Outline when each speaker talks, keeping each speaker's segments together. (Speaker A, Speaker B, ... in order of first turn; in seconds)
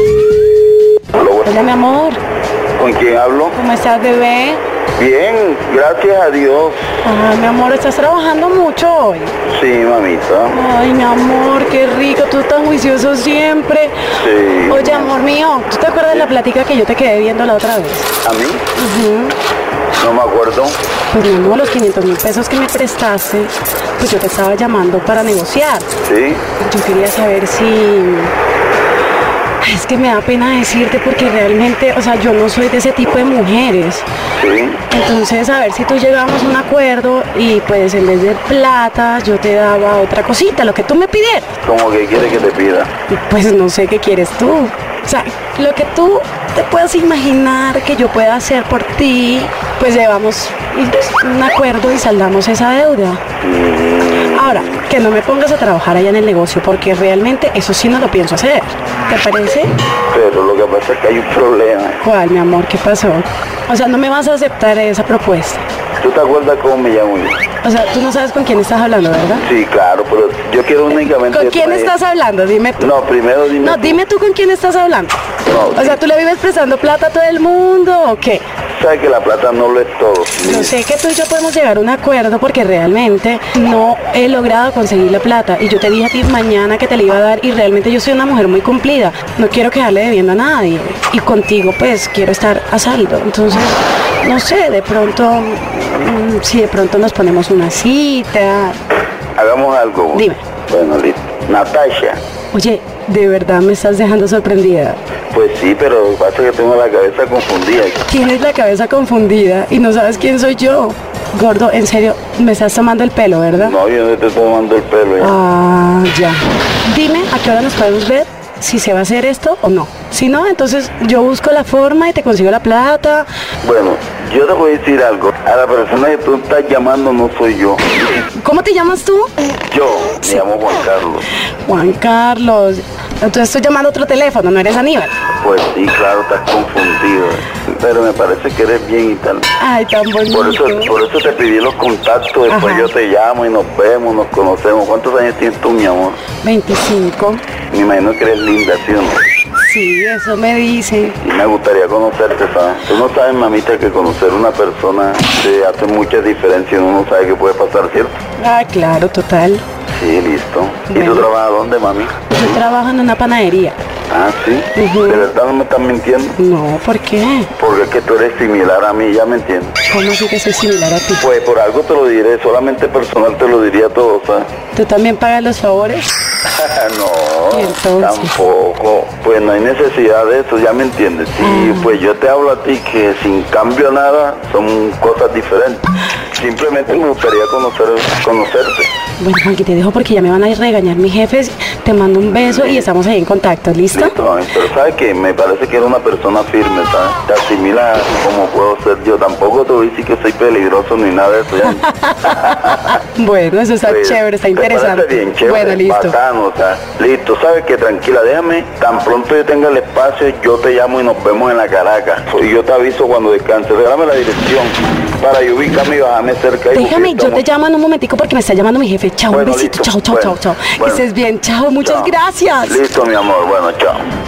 Speaker A: 1.1-1.6, 2.8-3.5, 5.0-6.9, 9.4-10.6, 14.2-15.1, 18.2-18.6, 20.0-20.8, 26.0-26.4, 34.4-34.8, 41.6-42.9, 53.4-54.8, 60.1-62.0, 66.0-67.4, 69.4-71.9, 72.8-74.0, 75.4-76.0, 78.7-80.8, 99.3-102.2, 105.3-108.0, 113.5-115.4, 123.6-128.0, 129.7-131.3, 135.4-139.5, 140.3-146.2, 147.7-149.2, 151.2-158.2, 159.9-162.3, 164.1-166.4, 167.5-169.8, 171.2-174.5, 176.4-188.9, 192.3-192.9, 193.9-203.0, 203.8-217.4, 219.3-221.1, 221.8-224.1
Speaker B: 1.4-2.2, 3.5-4.6, 7.0-9.3, 10.5-14.1, 14.7-18.1, 18.7-19.4, 21.1-25.9, 26.6-28.3, 29.6-34.0, 34.9-41.5, 43.1-53.2, 54.3-59.7, 62.0-65.6, 67.6-69.5, 71.3-73.0, 73.6-75.2, 75.8-78.4, 80.4-98.8, 100.1-100.4, 102.5-105.0, 108.0-113.8, 115.2-123.3, 128.3-129.3, 131.6-135.1, 139.6-141.0, 142.5-142.9, 146.4-147.4, 149.6-151.2, 158.4-159.6, 160.9-161.3, 162.3-163.8, 164.7-165.3, 166.4-167.5, 169.9-171.2, 174.7-176.1, 177.5-178.4, 181.4-181.9, 189.2-194.2, 201.6-206.2, 216.7-222.8